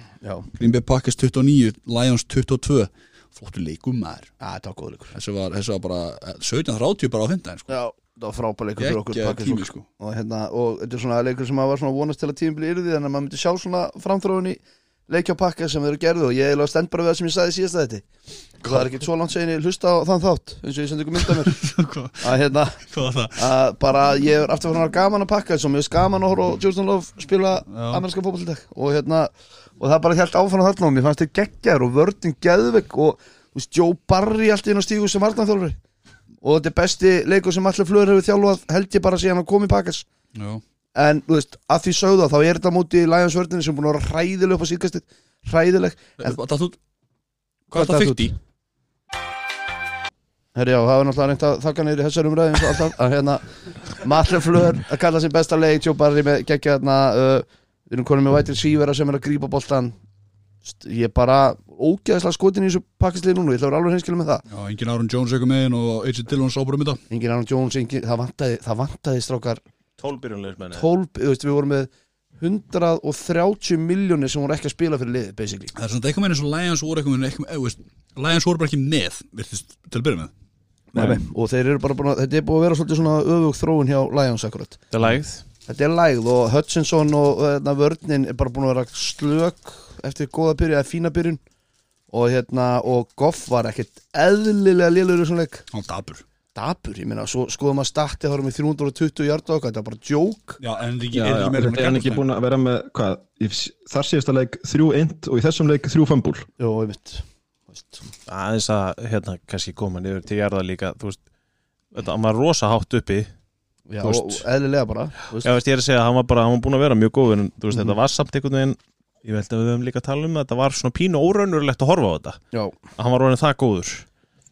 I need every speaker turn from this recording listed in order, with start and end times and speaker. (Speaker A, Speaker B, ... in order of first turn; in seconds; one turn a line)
Speaker A: 0.2-0.5
Speaker B: 0.6-4.3
Speaker A: 4.4-5.1
Speaker B: 5.1-7.7
Speaker A: 7.7-18.1
Speaker B: 8.8-9.8
Speaker B: 18.6-18.9
Speaker A: 18.6-21.6
Speaker B: 21.3-23.4
Speaker A: 22.2-22.8
Speaker A: 23.3-35.8
Speaker B: 27.7-28.0
Speaker A: 36.4-40.0
Speaker B: 40.3-40.6
Speaker A: 40.9-46.4
Speaker B: 46.2-46.8
Speaker B: 47.7-48.3
Speaker A: 47.8-48.3
Speaker A: 50.5-60.0
Speaker A: 60.6-64.4
Speaker B: 64.5-67.0
Speaker A: 67.1-69.6
Speaker C: 70.0-70.9
Speaker A: 70.7-75.7
Speaker B: 75.7-80.3
Speaker A: 80.9-84.8
Speaker C: 84.9-85.4
Speaker A: 85.7-91.4
Speaker A: 92.1-95.6
Speaker B: 95.7-96.2
Speaker A: 96.5-100.6
Speaker B: 100.6-102.2
Speaker D: 101.1-106.5
Speaker A: 106.6-108.0
Speaker C: 108.3-111.2
Speaker C: 111.9-113.3
Speaker A: 113.9-115.5
Speaker C: 114.0-114.4
Speaker C: 115.4-122.4
Speaker C: 123.0-124.0